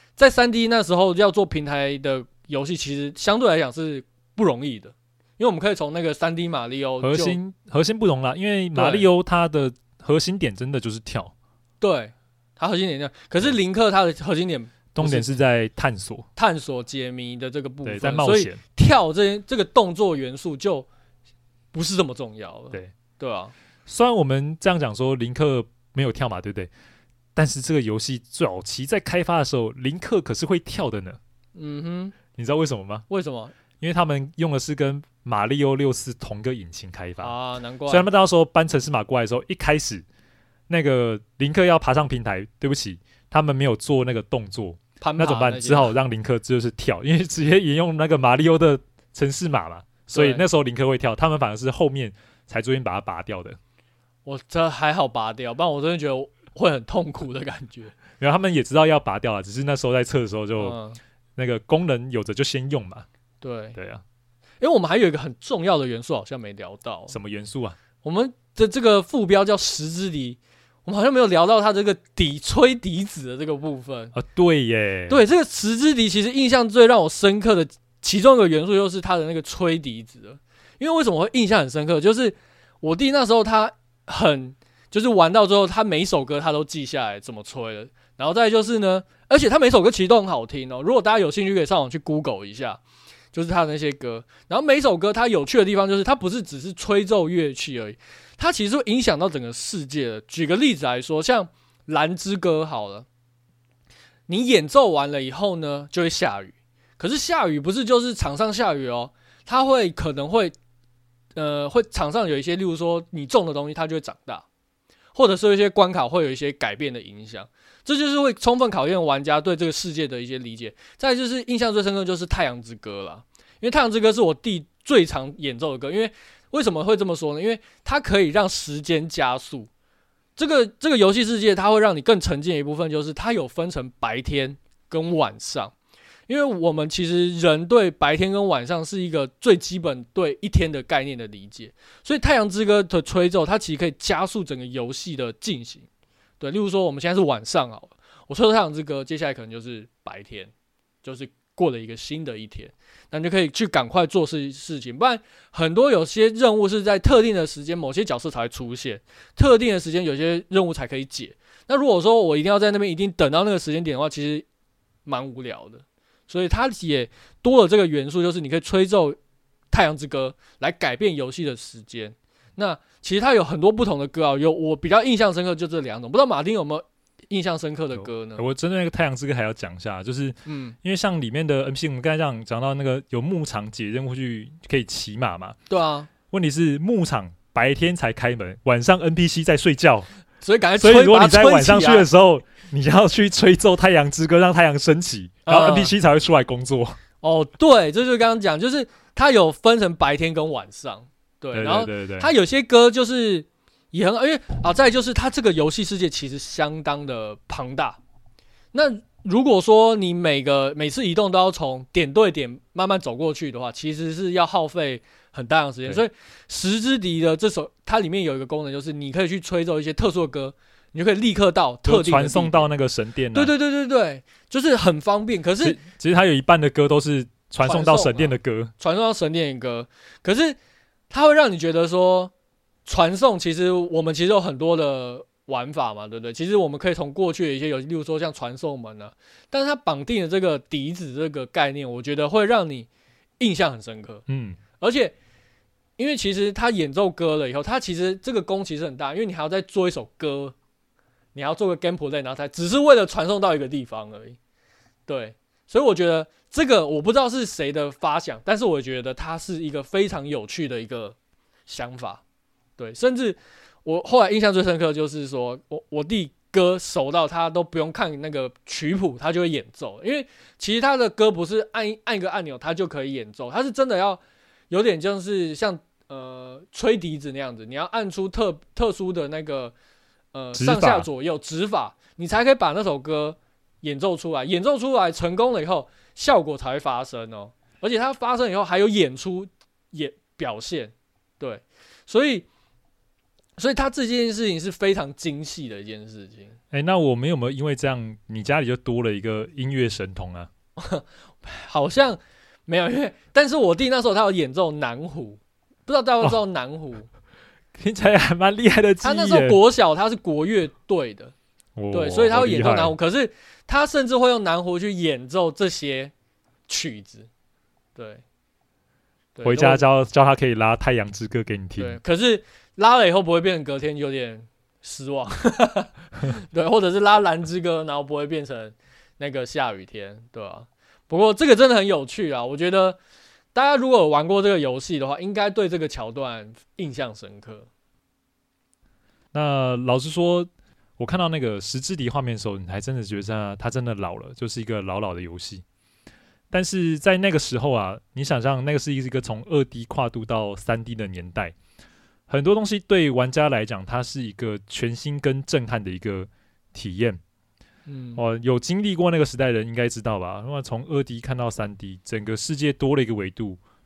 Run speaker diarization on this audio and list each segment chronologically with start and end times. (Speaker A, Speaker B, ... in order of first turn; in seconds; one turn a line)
Speaker A: 0.2-7.4
Speaker B: 7.0-11.3
Speaker A: 8.7-9.1
Speaker A: 11.8-15.3
Speaker B: 14.9-16.3
Speaker A: 16.4-20.9
Speaker B: 17.9-18.6
Speaker A: 21.7-23.5
Speaker B: 23.9-26.7
Speaker B: 27.4-31.2
Speaker A: 31.6-32.1
Speaker B: 32.4-33.1
Speaker A: 33.1-33.5
Speaker B: 33.8-37.3
Speaker A: 37.2-38.1
Speaker B: 37.9-40.0
Speaker B: 40.7-53.6
Speaker A: 45.0-45.9
Speaker A: 50.1-50.5
Speaker A: 54.2-58.0
Speaker B: 58.2-60.8
Speaker A: 60.6-61.0
Speaker B: 61.4-63.1
Speaker A: 63.4-63.8
Speaker B: 63.8-64.0
Speaker A: 64.6-67.2
Speaker B: 67.1-67.8
Speaker A: 68.0-74.1
Speaker B: 74.1-75.2
Speaker A: 75.1-92.8
Speaker A: 93.3-103.1
Speaker A: 104.3-110.5
Speaker A: 111.4-114.5
Speaker A: 115.2-129.7
Speaker A: 130.4-135.7
Speaker A: 136.3-145.9
Speaker A: 146.4-150.5
Speaker A: 151.0-164.5
Speaker A: 165.1-169.2
Speaker A: 169.7-178.4
Speaker B: 178.0-185.6
Speaker A: 180.5-180.8
Speaker A: 185.7-186.1
Speaker B: 186.3-190.1
Speaker A: 190.4-192.1
Speaker B: 190.8-197.0
Speaker A: 195.5-195.9
Speaker A: 197.2-208.0
Speaker B: 201.5-202.3
Speaker A: 208.7-222.7
Speaker B: 221.8-223.5
Speaker A: 223.3-225.8
Speaker B: 225.6-228.7
Speaker A: 227.6-230.6
Speaker A: 231.1-232.3
Speaker A: 232.9-242.9
Speaker A: 243.4-244.2
Speaker B: 244.3-244.6
Speaker A: 244.8-245.2
Speaker A: 246.0-250.6
Speaker A: 251.3-254.4
Speaker A: 255.1-261.2
Speaker A: 261.7-262.2
Speaker A: 262.8-279.7
Speaker A: 280.3-292.5
Speaker B: 280.6-281.1
Speaker A: 293.6-296.6
Speaker B: 296.7-300.5
Speaker A: 300.8-307.1
Speaker B: 307.8-309.6
Speaker A: 309.0-311.3
Speaker B: 311.8-312.9
Speaker A: 311.9-316.1
Speaker A: 316.7-317.3
Speaker A: 318.0-318.2
Speaker A: 319.4-319.8
Speaker B: 319.4-322.0
Speaker A: 321.8-333.0
Speaker A: 333.6-337.7
Speaker B: 339.3-345.6
Speaker B: 346.5-351.6
Speaker B: 352.3-357.2
Speaker A: 357.9-358.2
Speaker B: 358.2-363.6